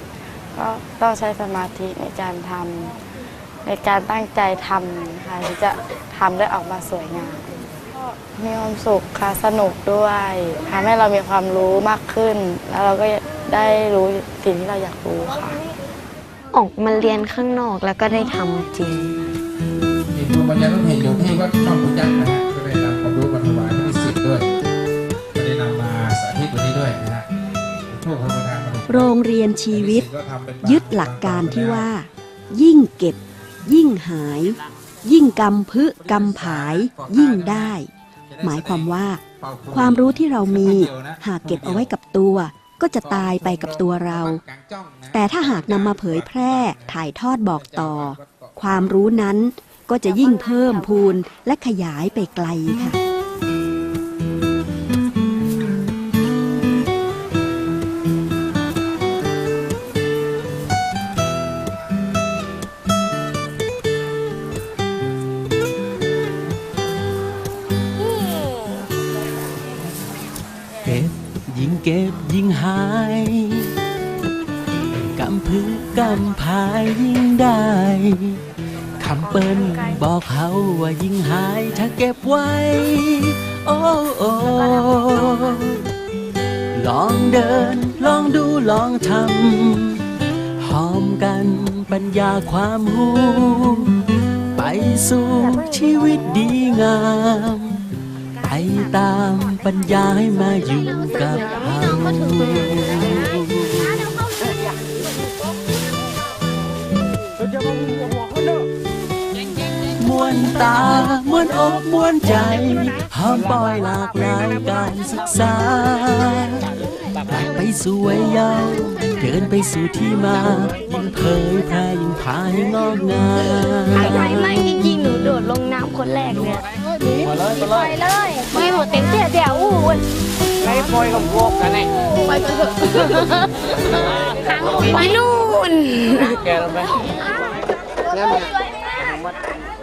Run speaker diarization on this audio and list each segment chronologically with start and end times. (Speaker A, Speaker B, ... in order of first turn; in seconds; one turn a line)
Speaker A: 0.6-2.9
Speaker A: 3.6-15.6
Speaker B: 16.5-19.2
Speaker C: 20.1-24.4
Speaker C: 25.3-27.2
Speaker C: 27.9-29.1
Speaker D: 28.9-30.1
Speaker C: 29.7-31.9
Speaker D: 30.6-37.9
Speaker C: 36.0-37.8
Speaker C: 38.3-41.9
Speaker D: 38.4-44.4
Speaker C: 43.0-46.9
Speaker D: 45.1-53.0
Speaker C: 47.5-48.9
Speaker B: 50.1-51.1
Speaker B: 68.0-68.9
Speaker E: 70.8-73.7
Speaker E: 75.0-78.4
Speaker E: 79.0-85.8
Speaker E: 86.7-90.0
Speaker E: 90.6-93.9
Speaker E: 94.5-97.8
Speaker E: 98.4-104.2
Speaker E: 110.0-116.7
Speaker E: 117.2-124.4
Speaker B: 123.9-126.6
Speaker B: 127.5-130.0
Speaker B: 132.3-132.9
Speaker B: 134.3-136.6